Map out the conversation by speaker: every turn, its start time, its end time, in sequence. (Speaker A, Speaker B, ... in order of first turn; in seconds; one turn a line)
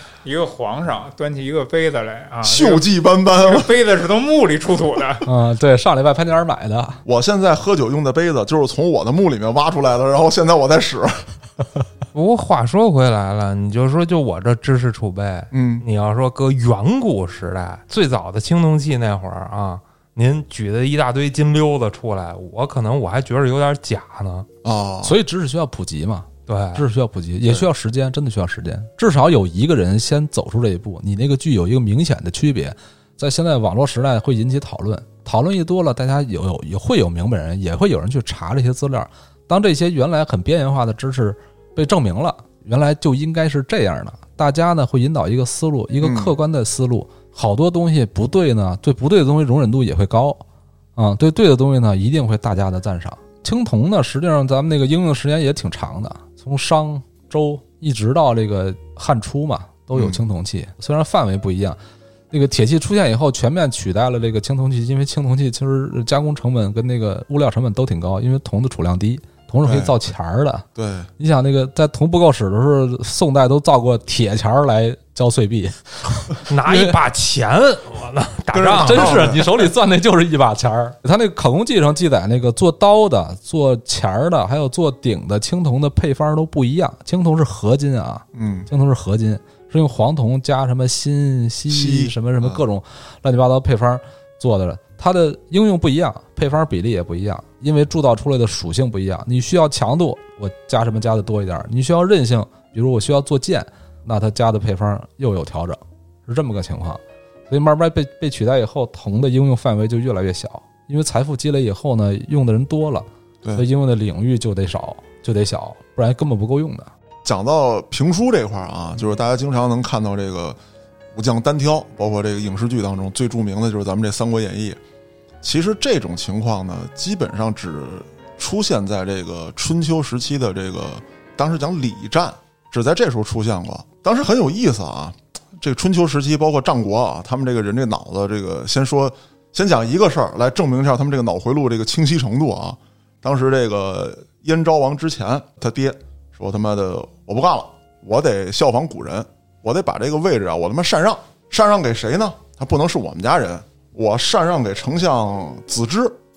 Speaker A: 0.2-5.3
Speaker B: 2.4-3.7
Speaker C: 5.3-7.0
Speaker B: 7.0-11.3
Speaker D: 12.1-24.5
Speaker B: 15.5-15.8
Speaker B: 24.6-25.2
Speaker C: 25.0-50.4
Speaker D: 26.5-26.9
Speaker B: 46.0-46.3
Speaker C: 51.0-61.8
Speaker B: 59.9-60.2
Speaker C: 62.3-70.7
Speaker B: 69.6-70.0
Speaker B: 70.8-71.1
Speaker C: 71.2-77.0
Speaker D: 76.5-79.4
Speaker B: 78.5-79.5
Speaker C: 78.7-116.9
Speaker B: 88.3-88.7
Speaker B: 91.7-92.6
Speaker B: 117.2-120.6
Speaker B: 121.1-124.8
Speaker B: 125.4-156.2